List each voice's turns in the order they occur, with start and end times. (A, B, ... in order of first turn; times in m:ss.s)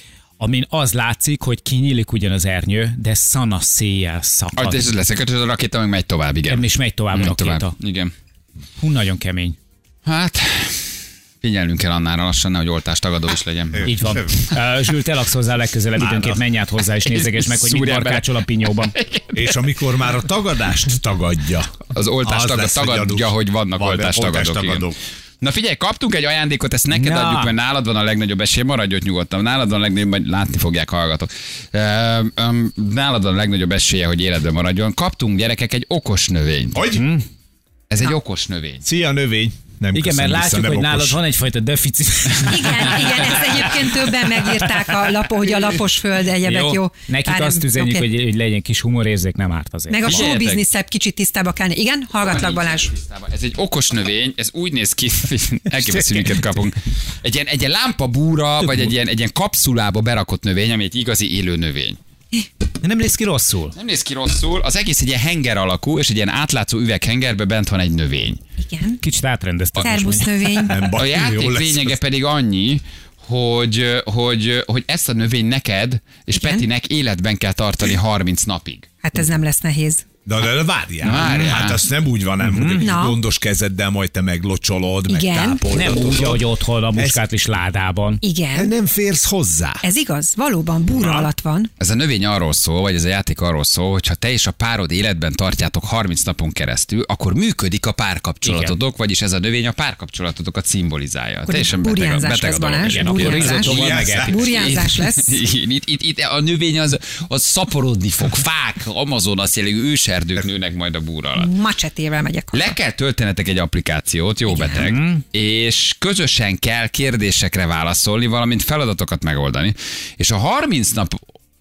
0:00.4-0:04.9 A
0:04.6-0:08.1 B
0:06.5-0:07.7 A
0:08.8-0:09.6 A
0:10.0-0:10.9 B
0:11.4-0:14.0 B
0:13.7-0:14.4 C
0:13.8-0:19.0 A
0:16.0-0:16.4 C
0:17.0-0:18.3 B
0:18.9-0:19.4 B
0:19.3-0:25.0 C
0:21.9-0:24.9 B
0:25.4-0:36.9 B
0:26.9-0:27.5 A
0:36.7-0:37.1 C
0:36.9-0:37.2 A
0:37.9-0:38.8 B
0:38.8-0:41.2 C
0:39.9-0:44.7 A
0:42.5-0:48.1 D
0:46.4-0:50.2 A
0:49.9-0:52.9 D
0:50.0-0:50.6 B
0:52.2-1:02.0 B
0:55.7-0:56.4 A
1:02.8-1:03.8 A
1:03.7-1:08.4 B
1:08.6-1:09.0 D
1:09.0-1:10.3 A
1:09.8-1:10.8 D
1:10.7-1:12.0 C
1:10.9-1:18.9 B
1:16.3-1:16.7 D
1:19.0-1:20.0 D
1:20.3-1:27.2 C
1:21.0-1:21.8 B
1:21.1-1:21.7 A
1:22.4-1:22.8 A
1:22.8-1:23.2 D
1:25.1-1:25.6 D
1:25.7-1:28.2 A
1:28.2-1:28.7 D
1:28.5-1:29.8 C
1:29.8-1:31.7 D
1:31.8-1:43.8 B
1:38.4-1:38.8 A
1:41.5-1:45.4 D
1:42.8-1:44.8 A
1:43.4-1:44.4 C
1:44.4-1:51.5 B
1:51.4-1:52.6 D
1:52.5-2:01.2 B
1:54.7-1:55.2 A